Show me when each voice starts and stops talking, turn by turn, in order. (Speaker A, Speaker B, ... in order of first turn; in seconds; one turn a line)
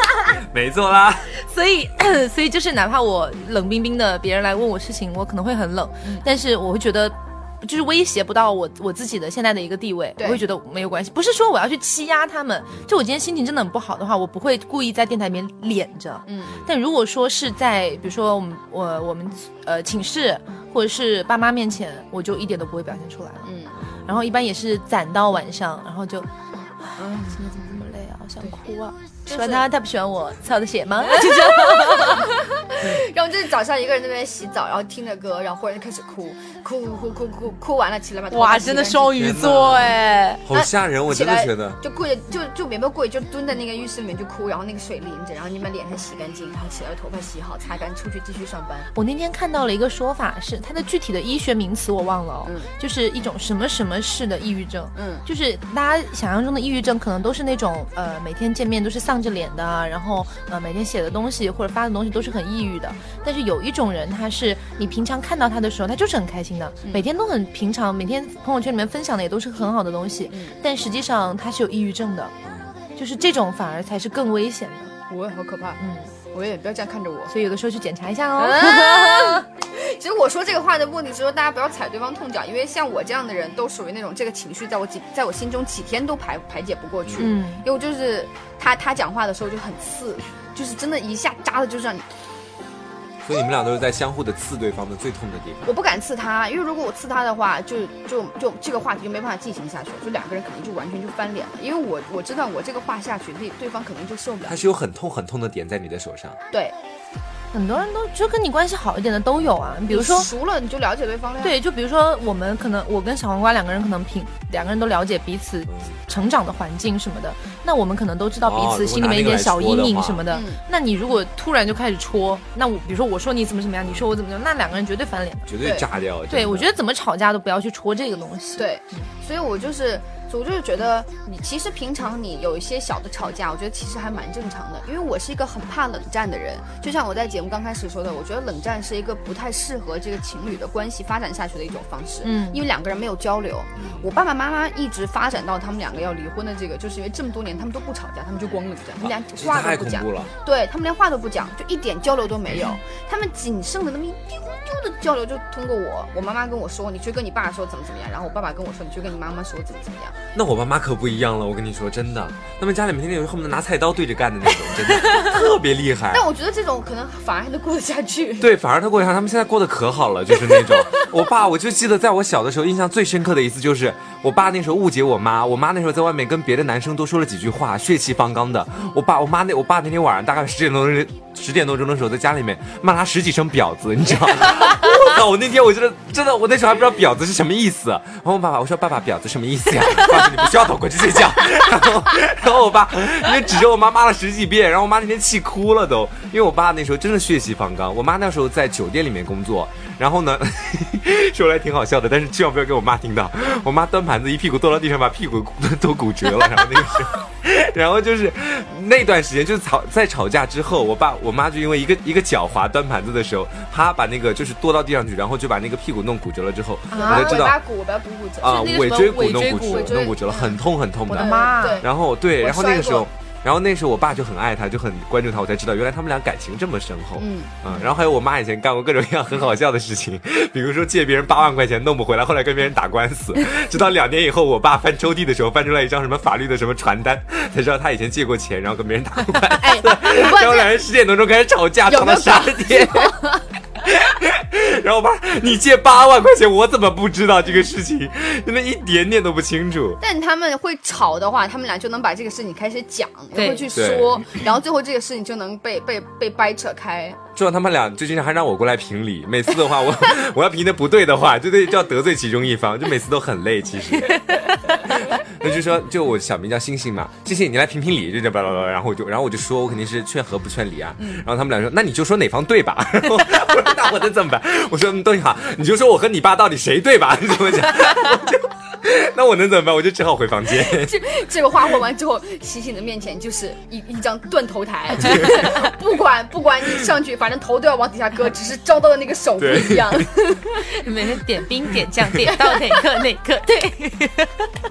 Speaker A: 0.3-1.3
Speaker B: 1.3-23.5
Speaker C: 16.2-16.6
Speaker C: 23.4-23.8
Speaker A: 23.8-24.1
Speaker B: 24.0-32.3
Speaker C: 27.0-27.4
Speaker C: 29.2-29.7
Speaker C: 31.0-39.1
Speaker B: 38.3-40.4
Speaker A: 39.1-41.8
Speaker C: 40.5-48.9
Speaker B: 48.9-72.3
Speaker C: 52.4-52.7
Speaker C: 54.9-55.2
Speaker C: 70.3-70.6
Speaker A: 72.4-72.7
Speaker B: 73.0-74.9
Speaker C: 75.1-75.8
Speaker B: 75.8-76.1
Speaker C: 76.3-77.3
Speaker B: 77.3-79.4
Speaker C: 78.4-92.1
Speaker B: 87.2-87.6
Speaker A: 93.2-95.7
Speaker C: 95.6-104.6
Speaker A: 104.5-106.4
Speaker B: 107.5-110.3
Speaker C: 109.9-111.5
Speaker B: 111.4-125.5
Speaker A: 115.7-115.9
Speaker A: 118.4-120.3
Speaker C: 120.3-120.6
Speaker A: 125.5-126.7
Speaker C: 125.6-125.9
Speaker B: 126.3-129.1
Speaker C: 128.6-160.2
Speaker B: 142.2-142.6
Speaker A: 143.8-144.1
Speaker A: 149.0-150.3
Speaker A: 160.3-166.2
Speaker C: 166.1-168.5
Speaker A: 168.4-217.6
Speaker C: 170.5-171.1
Speaker B: 216.9-217.4
Speaker C: 216.9-218.7
Speaker A: 218.4-243.2
Speaker B: 218.4-220.1
Speaker C: 219.5-223.1
Speaker B: 221.1-221.8
Speaker C: 227.2-227.6
Speaker C: 239.5-240.7
Speaker C: 241.9-243.4
Speaker A: 243.8-250.0
Speaker C: 250.0-257.2
Speaker B: 253.3-253.7
Speaker A: 253.7-254.2
Speaker A: 257.4-281.0
Speaker B: 264.1-265.2
Speaker C: 271.0-271.2
Speaker C: 280.6-290.6
Speaker B: 285.2-285.5
Speaker A: 289.4-290.1
Speaker B: 290.6-294.5
Speaker C: 292.4-292.8